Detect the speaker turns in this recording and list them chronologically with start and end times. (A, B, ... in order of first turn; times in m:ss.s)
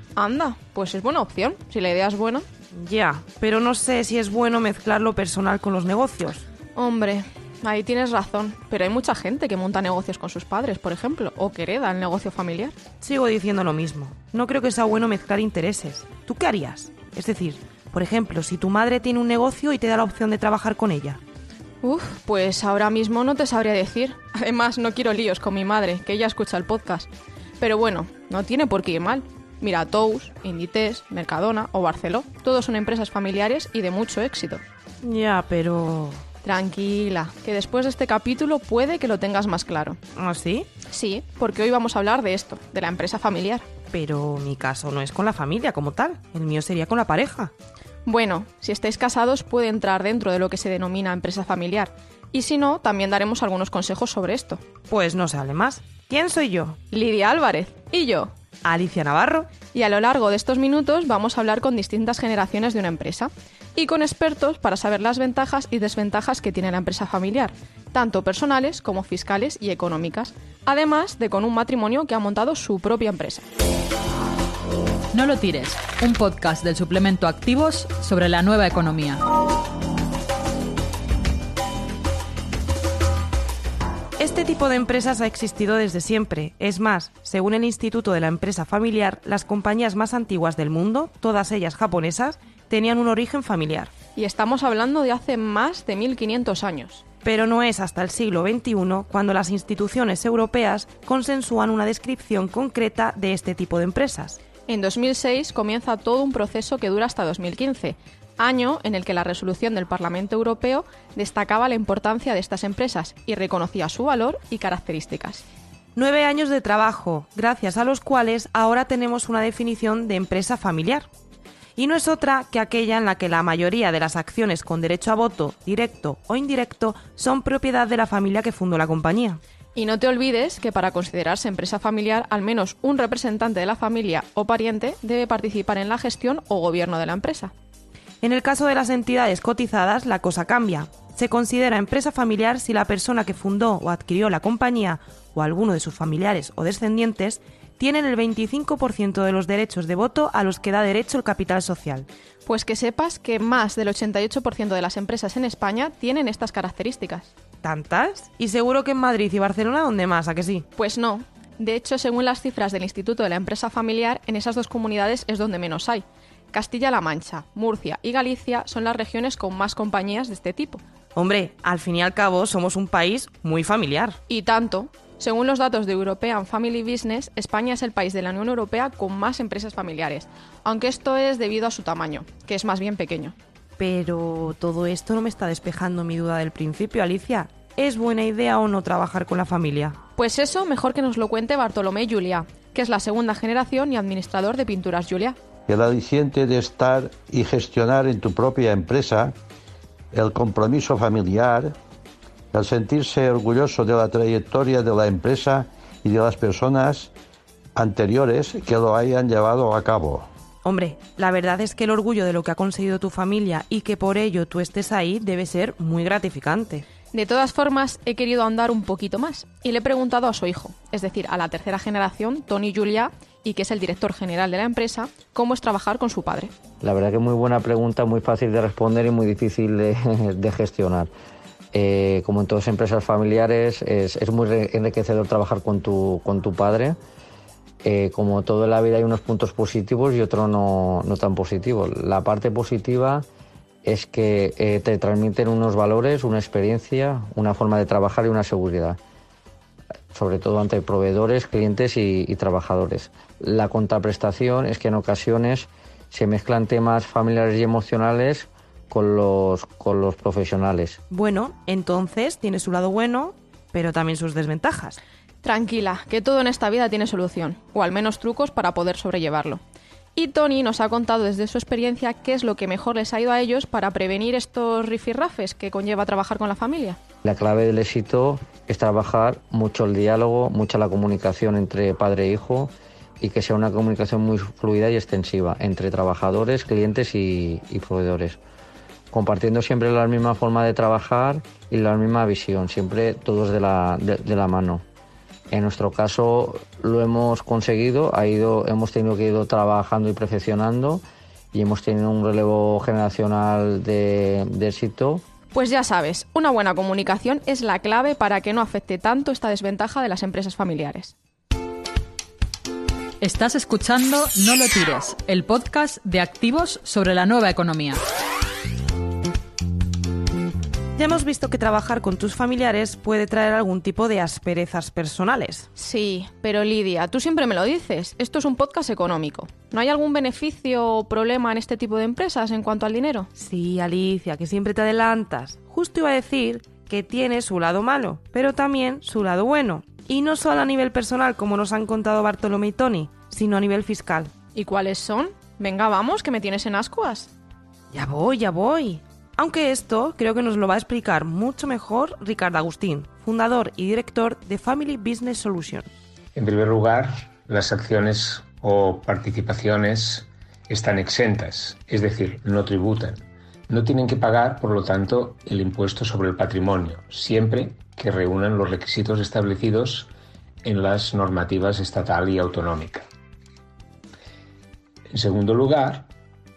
0:00.2-0:02.4 A
0:02.7-0:06.4 B
0:06.8-0:12.8 A
0:13.0-0:21.2 B
0:21.8-0:27.1 A
0:27.6-0:34.6 A
0:35.0-0:36.2 B
0:36.4-0:40.0 A
0:40.2-0:40.7 B
0:40.9-0:43.6 A
0:43.9-0:47.5 B
0:48.1-0:54.6 A
0:54.9-0:56.8 B
0:56.9-0:58.3 A
0:58.6-0:59.5 B
0:59.7-1:13.5 A
1:15.1-1:19.2 C
1:24.2-1:33.9 B
1:34.2-1:37.0 A
1:37.2-1:44.4 B
1:44.7-1:55.5 A
1:56.0-2:01.1 B
2:01.8-2:09.4 B
2:09.8-2:17.5 A
2:18.2-2:32.1 B
2:32.4-2:37.3 A
2:37.6-2:40.7 B
2:40.8-2:50.8 A
2:51.2-2:54.2 B
2:54.3-3:03.4 A
3:03.8-3:10.0 B
3:10.2-3:15.4 A
3:15.7-3:19.4 D
3:20.1-3:21.8 D
3:22.5-3:27.1 D
3:27.8-3:30.3 D
3:30.6-3:36.9 B
3:37.1-3:46.5 A
3:46.8-3:51.1 E
3:51.7-3:57.0 E
3:57.8-4:03.2 E
4:03.8-4:09.0 E
4:10.1-4:21.0 E
4:21.1-4:25.0 B
4:25.4-4:29.6 A
4:30.2-4:37.0 A
4:37.2-4:48.4 E
4:49.1-4:54.8 E
4:55.5-5:01.0 E
5:01.5-5:05.2 E
5:05.5-5:11.1 A
5:13.2-5:18.0 C
5:21.0-5:25.7 B
5:25.8-5:33.3 A
5:33.4-5:44.3 B
5:44.6-5:47.3 A
5:47.9-5:55.9 B
5:56.4-6:10.1 F
6:10.6-6:13.1 F
6:15.1-6:16.1 F